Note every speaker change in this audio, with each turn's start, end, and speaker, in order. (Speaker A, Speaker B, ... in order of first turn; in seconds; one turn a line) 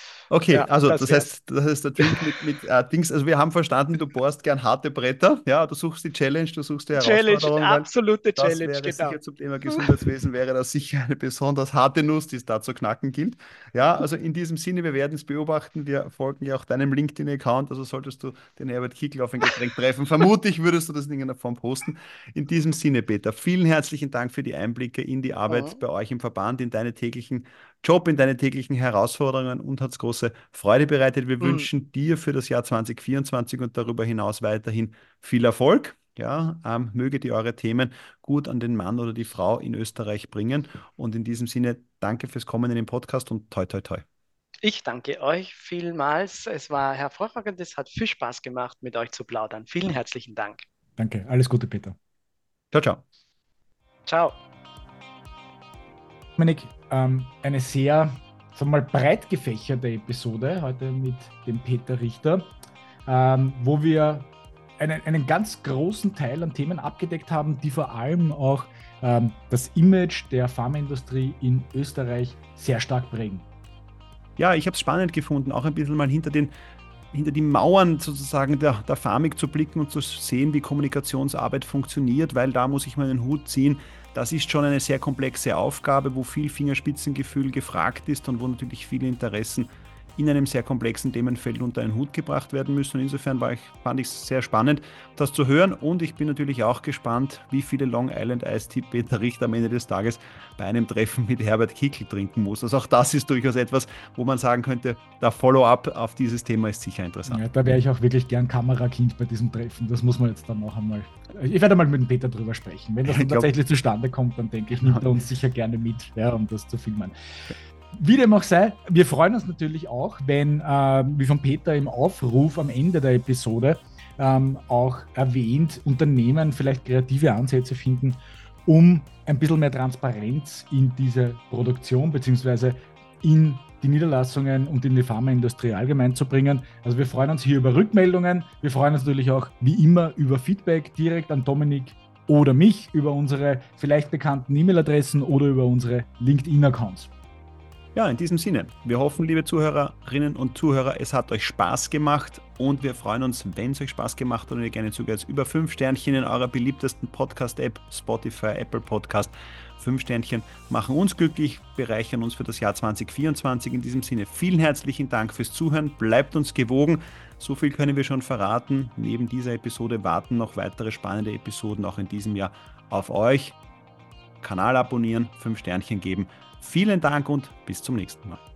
Speaker A: 0.3-44.0
Speaker B: 0.5-1.3
Speaker B: 2.0-2.2
Speaker B: 7.0-9.2
Speaker B: 25.5-25.8
Speaker B: 31.4-31.7
Speaker B: 44.6-50.6
Speaker C: 51.0-51.9
Speaker A: 52.7-53.0
Speaker B: 54.1-54.4
Speaker C: 56.4-62.5
Speaker C: 63.0-73.5
Speaker A: 74.4-76.5
Speaker A: 77.1-107.8
Speaker C: 107.3-117.1
Speaker A: 113.0-113.5
Speaker A: 114.8-115.1
Speaker C: 117.9-147.1
Speaker A: 147.9-173.6
Speaker A: 174.4-178.4